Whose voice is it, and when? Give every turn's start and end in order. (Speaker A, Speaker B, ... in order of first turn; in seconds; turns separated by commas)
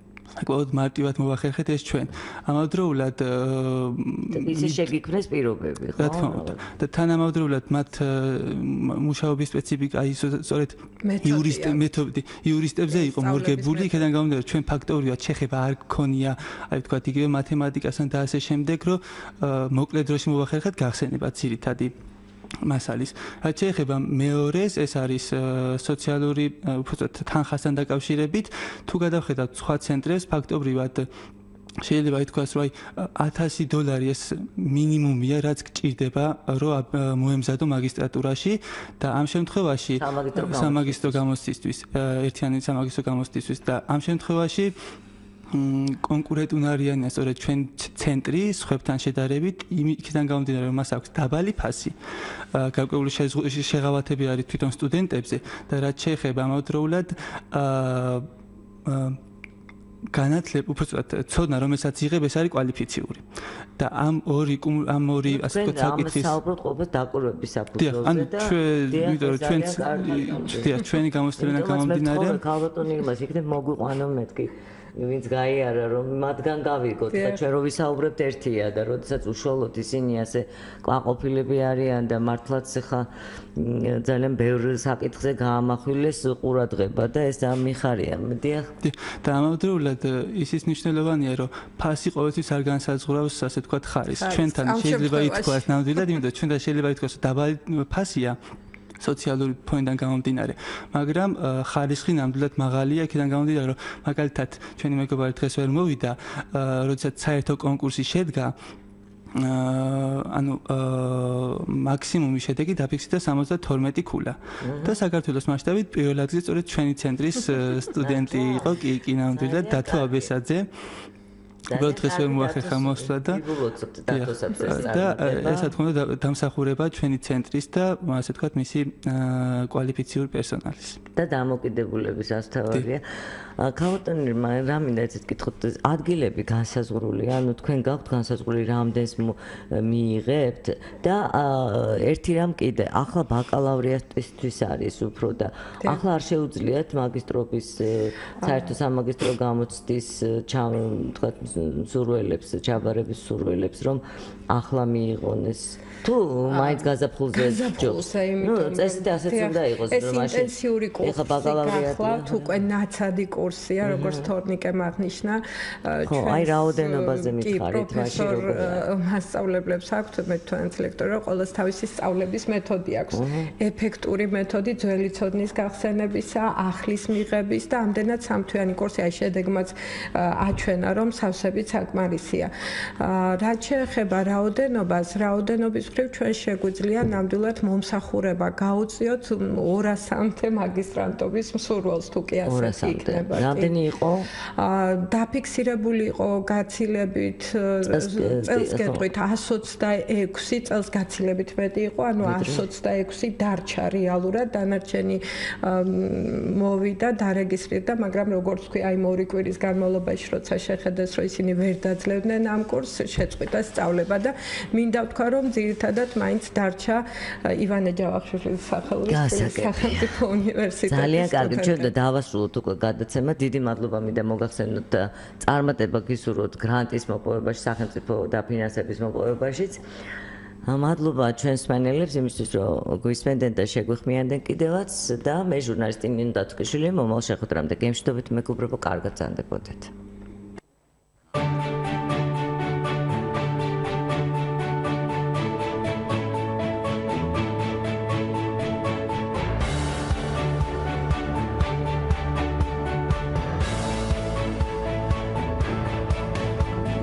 Speaker A: 0.4-4.8, Speaker B: 4.3-6.6, Speaker A: 6.0-21.9, Speaker C: 11.0-12.0, Speaker C: 12.9-14.1, Speaker A: 22.6-31.1, Speaker A: 31.8-44.8, Speaker B: 40.0-41.2, Speaker A: 45.5-52.0, Speaker A: 52.5-58.3, Speaker A: 58.8-59.2, Speaker A: 60.1-66.4, Speaker B: 65.3-70.8, Speaker A: 67.8-72.4, Speaker B: 71.4-88.7, Speaker C: 77.1-77.4, Speaker A: 88.8-98.4, Speaker C: 94.2-96.2, Speaker A: 99.0-108.5, Speaker A: 109.3-120.7, Speaker B: 114.6-115.0, Speaker B: 118.0-118.7, Speaker B: 119.3-120.3, Speaker B: 121.7-125.8, Speaker A: 121.7-123.4, Speaker A: 124.1-131.0, Speaker B: 131.1-133.0, Speaker B: 133.6-162.6, Speaker C: 148.4-148.7, Speaker C: 156.5-193.7, Speaker B: 163.8-164.3, Speaker B: 166.1-168.8, Speaker B: 173.1-173.5, Speaker B: 192.4-194.3, Speaker C: 194.6-221.9, Speaker B: 197.9-199.1, Speaker B: 202.2-202.6, Speaker B: 219.1-220.1, Speaker B: 220.9-229.8, Speaker B: 230.7-239.9